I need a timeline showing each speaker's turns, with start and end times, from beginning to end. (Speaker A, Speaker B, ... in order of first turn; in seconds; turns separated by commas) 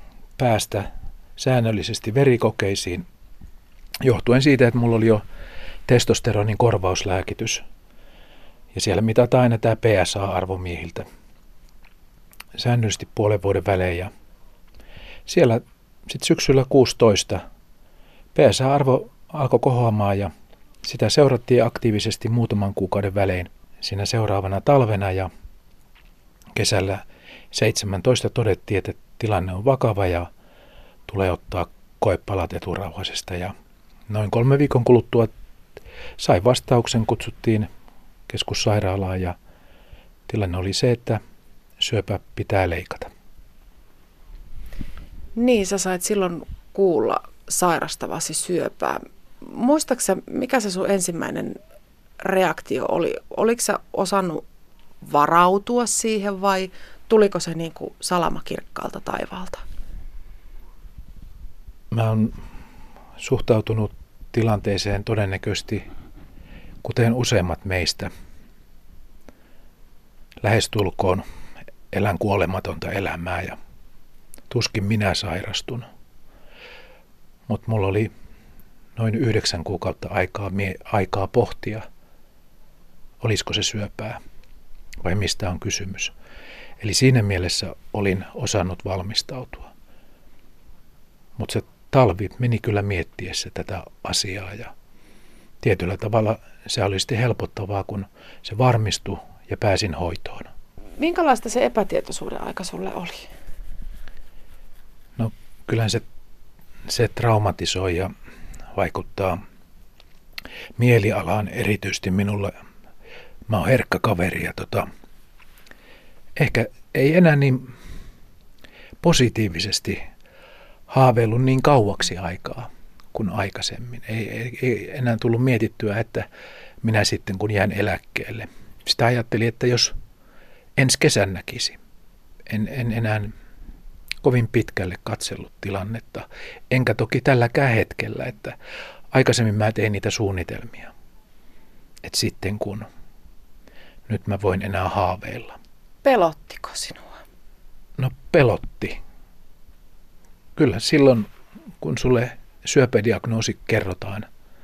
Speaker A: 0.4-3.0, Speaker A: 4.0-5.2, Speaker A: 5.9-7.6, Speaker A: 8.7-11.1, Speaker A: 12.6-14.1, Speaker A: 15.3-17.4, Speaker A: 18.3-20.3, Speaker A: 20.8-25.3, Speaker A: 26.5-30.3, Speaker A: 31.1-33.5, Speaker A: 34.1-35.3, Speaker A: 36.2-37.7, Speaker A: 38.3-39.4, Speaker A: 40.3-41.2, Speaker A: 41.8-43.1, Speaker B: 45.4-51.6, Speaker B: 52.2-54.4, Speaker B: 55.0-59.6, Speaker A: 61.9-62.4, Speaker A: 63.2-65.8, Speaker A: 66.8-68.1, Speaker A: 70.4-71.2, Speaker A: 71.9-73.6, Speaker A: 74.5-75.8, Speaker A: 77.5-78.1, Speaker A: 79.0-81.8, Speaker A: 83.2-84.2, Speaker A: 85.0-86.1, Speaker A: 86.8-89.7, Speaker A: 91.4-94.7, Speaker A: 95.6-100.5, Speaker B: 101.0-103.3, Speaker A: 105.2-106.0, Speaker A: 106.9-108.1, Speaker A: 108.7-109.4, Speaker A: 110.8-112.5, Speaker A: 113.5-114.9, Speaker A: 116.4-117.7, Speaker A: 119.0-120.0, Speaker A: 120.9-126.3, Speaker A: 126.8-129.9, Speaker A: 130.8-131.8, Speaker A: 132.5-133.3, Speaker A: 134.2-138.6, Speaker A: 139.1-140.9, Speaker A: 142.0-142.9, Speaker A: 144.1-145.6, Speaker B: 146.0-147.1, Speaker A: 148.0-149.0, Speaker A: 150.6-151.3, Speaker A: 151.8-154.3